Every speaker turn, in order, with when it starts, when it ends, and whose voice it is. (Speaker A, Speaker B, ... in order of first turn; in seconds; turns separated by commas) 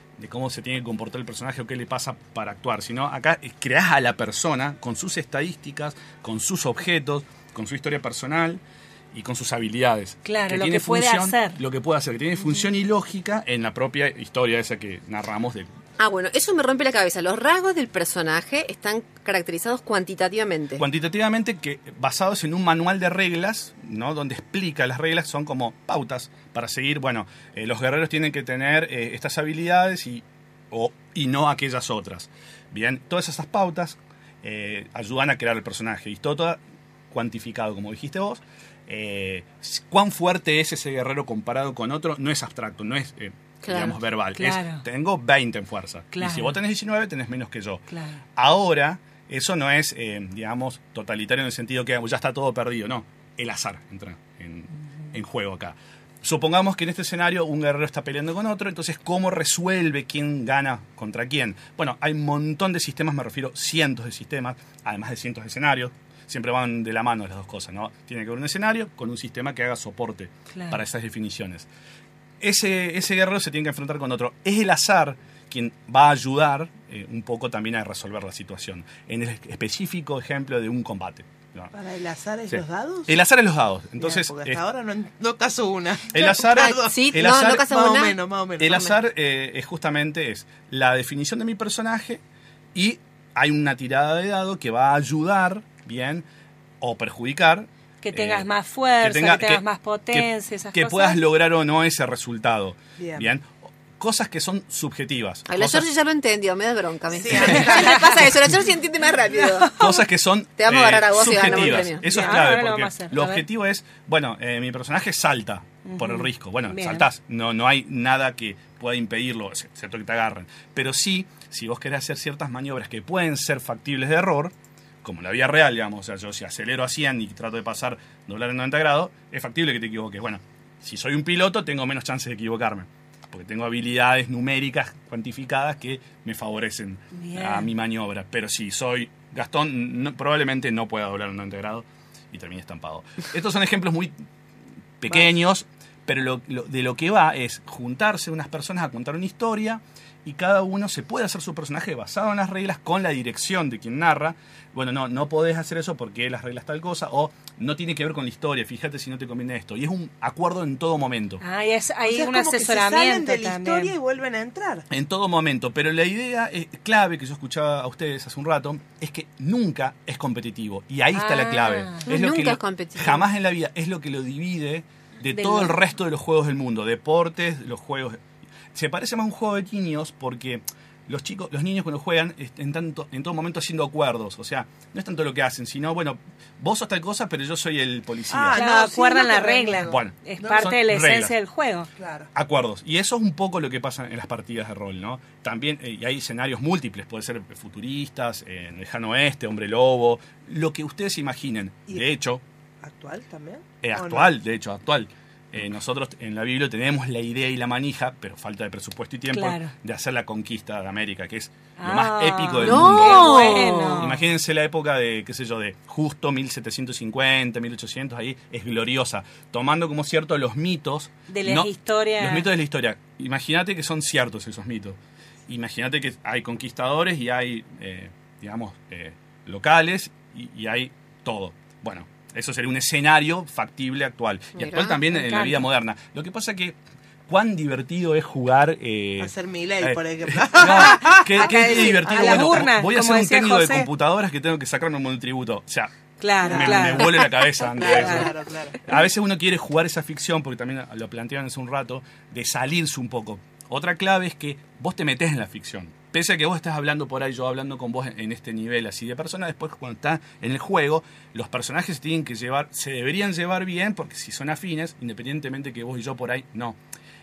Speaker A: 0.2-8.6, Speaker A: 9.1-15.7, Speaker B: 10.2-11.6, Speaker C: 16.0-20.9, Speaker A: 20.8-36.6, Speaker A: 37.1-47.8, Speaker C: 43.6-44.0, Speaker B: 44.4-44.8, Speaker B: 46.1-46.5, Speaker B: 47.9-48.2, Speaker A: 48.4-71.7, Speaker B: 70.5-70.8, Speaker A: 72.4-81.7, Speaker D: 81.7-83.2, Speaker A: 82.5-84.6, Speaker D: 84.0-88.9, Speaker A: 86.1-87.7, Speaker C: 86.5-88.2, Speaker A: 88.6-92.2, Speaker A: 92.8-96.2, Speaker A: 96.8-98.5, Speaker B: 98.0-101.2, Speaker A: 99.0-105.9, Speaker D: 103.0-103.3, Speaker C: 105.5-109.8, Speaker D: 107.1-108.4, Speaker A: 109.8-144.2, Speaker C: 110.6-112.3, Speaker B: 112.0-113.4, Speaker B: 115.9-117.1, Speaker B: 137.1-137.7, Speaker A: 145.0-161.4, Speaker B: 161.4-163.9, Speaker D: 162.1-164.9, Speaker A: 164.9-178.2, Speaker B: 171.1-172.1, Speaker C: 172.1-173.3, Speaker B: 175.3-175.8, Speaker A: 178.7-188.7, Speaker D: 188.3-190.7, Speaker B: 188.5-191.9, Speaker A: 189.8-191.3, Speaker D: 192.0-192.3, Speaker A: 192.3-202.4, Speaker D: 202.8-204.3, Speaker A: 203.8-236.8, Speaker B: 209.3-209.7, Speaker B: 211.8-214.2, Speaker C: 212.6-214.1, Speaker B: 221.3-222.5, Speaker C: 234.6-235.0, Speaker B: 235.1-235.6, Speaker A: 237.3-245.9, Speaker D: 239.2-242.5, Speaker B: 240.8-243.9, Speaker B: 246.2-247.3, Speaker D: 246.4-247.2, Speaker A: 246.4-266.8, Speaker D: 247.8-248.8, Speaker B: 247.9-248.3